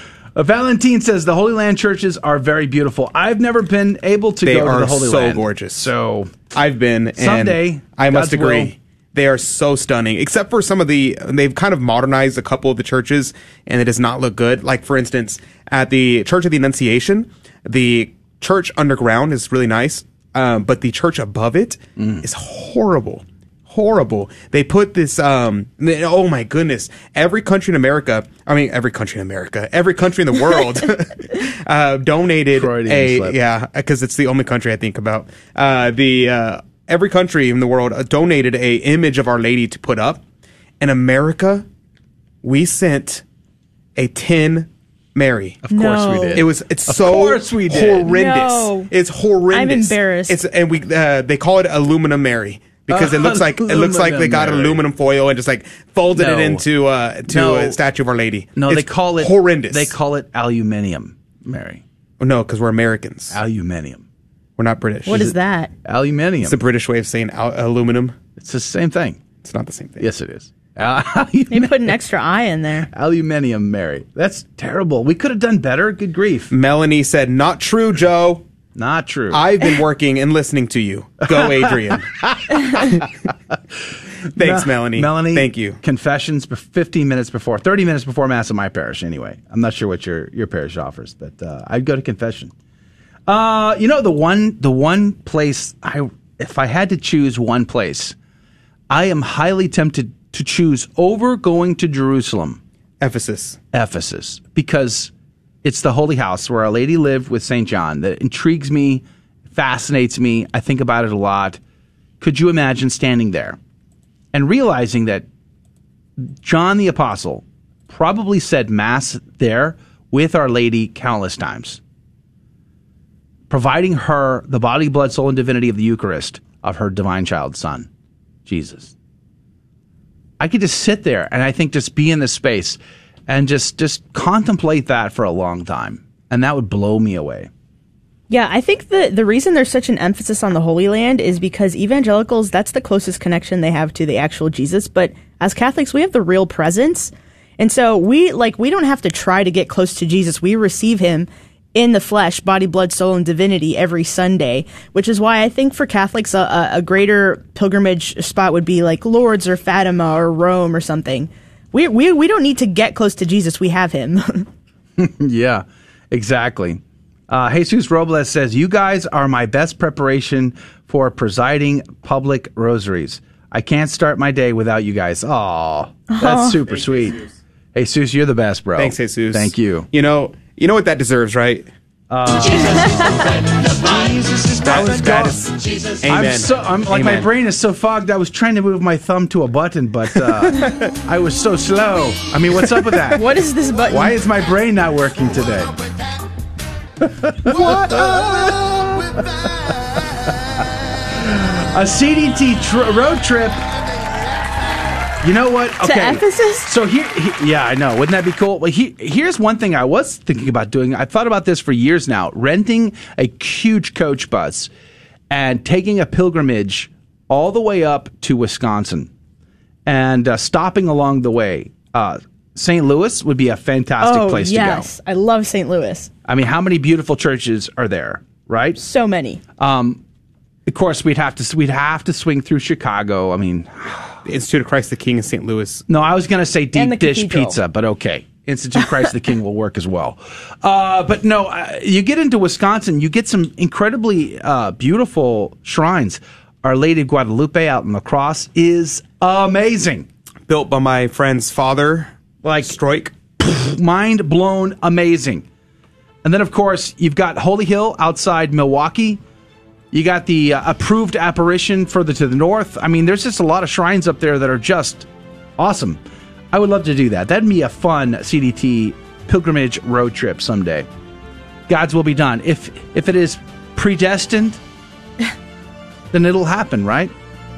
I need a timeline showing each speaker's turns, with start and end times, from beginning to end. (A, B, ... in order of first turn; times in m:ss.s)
0:00.4-0:06.3 A
0:04.4-0:05.9 B
0:06.5-0:40.2 B
0:07.2-0:08.8 A
0:22.0-0:22.3 A
0:32.5-0:33.4 A
0:40.8-0:41.6 B
0:42.4-0:43.2 B
0:44.0-0:45.6 B
0:45.7-0:48.1 A
0:45.7-0:46.4 C
0:46.3-0:59.9 B
0:48.0-0:48.9 C
0:49.5-0:50.4 C
0:52.9-0:54.8 A
0:56.2-0:56.6 A
0:57.3-0:57.8 A
0:58.6-1:01.8 A
1:02.2-1:03.4 B
1:03.3-1:04.0 A
1:04.6-1:05.3 B
1:05.1-1:05.7 C
1:05.8-1:06.6 A
1:06.4-1:08.2 B
1:08.4-1:09.2 A
1:09.4-1:10.0 B
1:10.0-1:11.9 A
1:11.5-1:12.9 C
1:12.9-1:16.5 A
1:16.5-1:18.4 B
1:18.8-1:19.4 A
1:19.3-1:23.0 B
1:22.2-1:23.1 A
1:24.4-1:25.8 B
1:24.4-1:32.5 A
1:33.3-1:38.2 A
1:38.9-1:42.6 A
1:43.0-1:43.6 B
1:43.7-1:45.1 A
1:45.6-1:51.6 A
1:52.2-1:53.6 A
1:54.3-1:55.2 A
1:56.4-2:01.8 A
2:03.5-2:07.9 A
2:08.5-2:08.9 A
2:10.4-2:17.5 A
2:18.3-2:44.5 C
2:45.0-2:57.2 A
2:56.1-2:56.6 C
2:57.8-2:59.9 A
2:58.8-3:01.7 B
3:02.1-3:13.3 A
3:04.6-3:07.3 B
3:13.1-3:14.2 C
3:13.9-3:15.7 A
3:17.1-3:19.2 A
3:21.1-3:23.7 A
3:25.2-3:34.7 A
3:25.8-3:26.7 C
3:35.3-3:39.1 A
3:39.9-3:44.9 A
3:44.0-3:46.1 C
3:46.3-3:48.8 A
3:48.8-3:49.4 C
3:49.6-3:50.0 A
3:50.7-3:54.2 A
3:54.3-3:55.8 B
3:55.9-4:10.1 A
3:56.7-3:57.6 C
4:10.5-4:12.1 B
4:12.4-4:12.7 A
4:12.6-4:13.1 B
4:13.4-4:15.4 A
4:16.2-4:19.2 A
4:19.9-4:25.1 A
4:25.6-4:26.0 A
4:26.5-4:30.9 A
4:31.7-4:34.6 A
4:36.1-4:37.1 A